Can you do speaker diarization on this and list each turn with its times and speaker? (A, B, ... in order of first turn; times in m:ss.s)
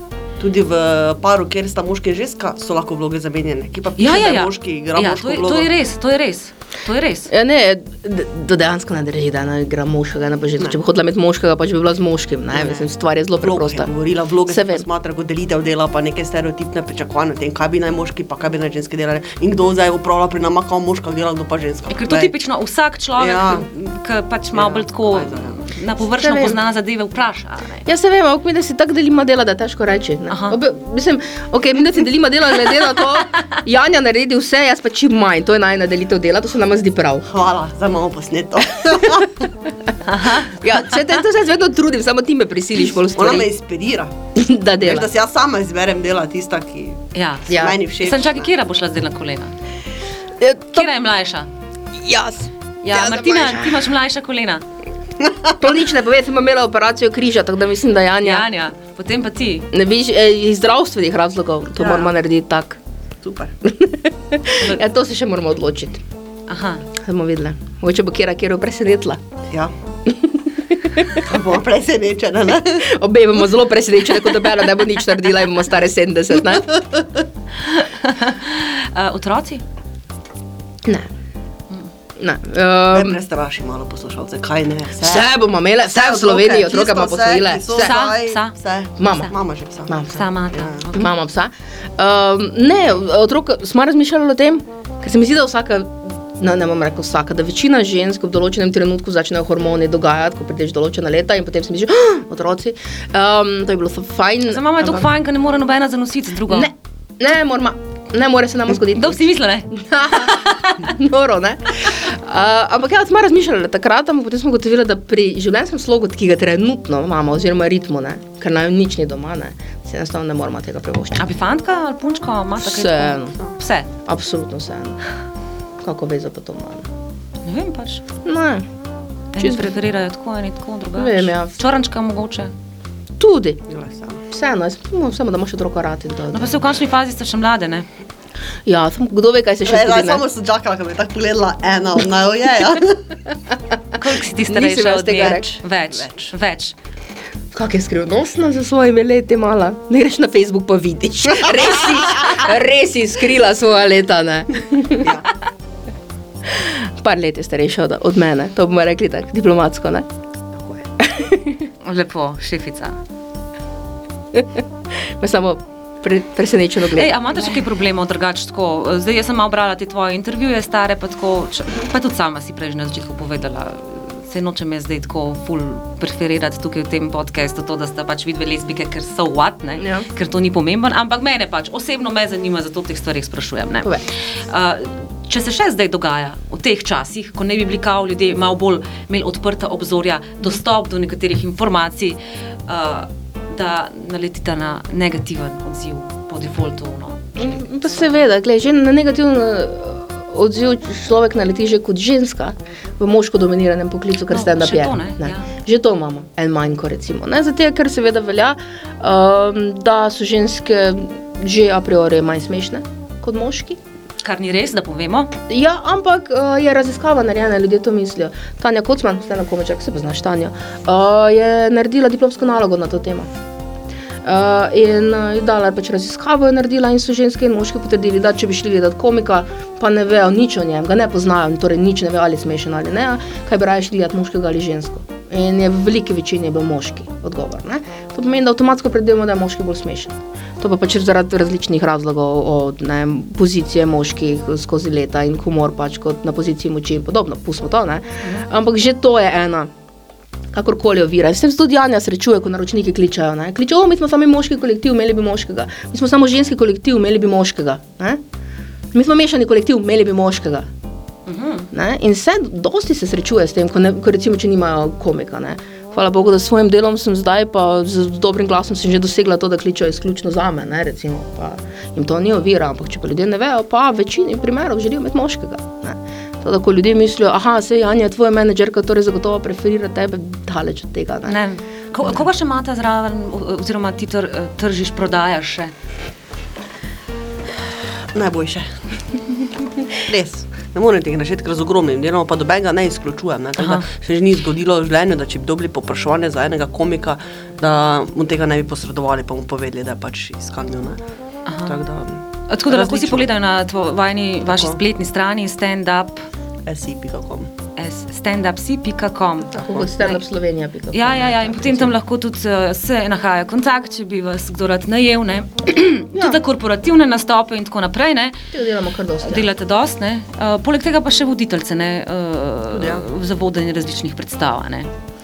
0:00.4-0:05.7 A
0:04.0-0:07.3 B
0:07.3-0:13.9 C
0:12.5-0:12.9 A
0:13.4-0:22.4 A
0:14.5-0:14.9 C
0:21.9-0:27.9 B
0:23.2-0:23.7 A
0:24.5-0:25.6 A
0:26.2-0:26.6 C
0:27.9-0:37.3 C
0:30.3-0:30.6 B
0:37.3-0:39.5 A
0:40.0-0:40.6 B
0:40.3-0:43.5 C
0:43.1-0:44.1 A
0:44.4-0:45.1 C
0:44.8-0:48.5 A
0:47.1-0:49.5 B
0:47.5-0:47.8 C
0:50.4-0:50.9 C
0:50.7-0:51.5 B
0:52.0-0:53.8 C
0:52.9-0:54.6 B
0:55.2-0:55.5 A
0:55.6-0:58.5 C
0:58.2-0:59.7 B
0:59.7-1:02.8 C
1:01.8-1:02.1 A
1:03.2-1:03.5 A
1:03.6-1:06.0 C
1:06.5-1:06.9 B
1:07.0-1:09.2 C
1:10.1-1:11.2 C
1:11.2-1:12.9 A
1:12.8-1:16.8 C
1:17.6-1:19.6 B
1:22.2-1:23.2 C
1:22.9-1:25.3 A
1:25.0-1:28.0 C
1:25.8-1:30.0 A
1:27.7-1:28.6 B
1:29.0-1:29.3 C
1:29.9-1:30.3 C
1:30.1-1:31.1 B
1:30.5-1:30.8 A
1:30.9-1:45.1 C
1:44.5-1:46.7 B
1:46.5-2:01.3 C
1:48.9-1:49.7 B
2:01.2-2:03.9 B
2:02.6-2:03.4 C
2:04.1-2:05.0 C
2:05.8-2:06.9 C
2:07.4-2:08.0 B
2:08.2-2:08.7 C
2:09.3-2:12.5 B
2:09.4-2:09.8 C
2:11.0-2:11.6 C
2:13.2-2:13.6 C
2:13.7-2:14.2 A
2:14.3-2:16.6 C
2:16.3-2:17.9 B
2:18.6-2:20.2 C
2:19.6-2:23.1 A
2:24.0-2:26.8 B
2:24.3-2:25.5 C
2:27.5-2:35.1 C
2:35.0-2:35.3 A
2:36.4-2:40.1 C
2:40.6-2:40.8 A
2:41.0-2:41.7 C
2:41.8-2:43.0 B
2:44.3-2:47.4 C
2:46.9-3:17.6 B
2:59.8-3:00.1 C
3:17.4-3:33.8 C
3:24.3-3:25.5 B
3:34.2-3:35.3 B
3:35.5-3:43.3 C
3:44.2-4:09.7 C
4:10.5-4:18.2 C
4:18.9-4:20.7 C
4:21.3-4:21.7 B
4:21.7-4:41.4 C
4:41.3-4:45.7 B
4:48.1-4:49.0 A
4:49.9-5:01.0 A
4:53.6-4:53.9 B
5:01.5-5:01.8 B
5:01.7-5:03.3 A
5:02.5-5:06.2 B
5:04.5-5:04.8 A
5:06.7-5:07.5 A
5:07.8-5:10.2 B
5:09.5-5:11.9 C
5:10.9-5:18.4 B
5:16.1-5:16.4 C
5:18.5-5:19.5 C
5:19.2-5:24.9 B
5:22.7-5:23.1 A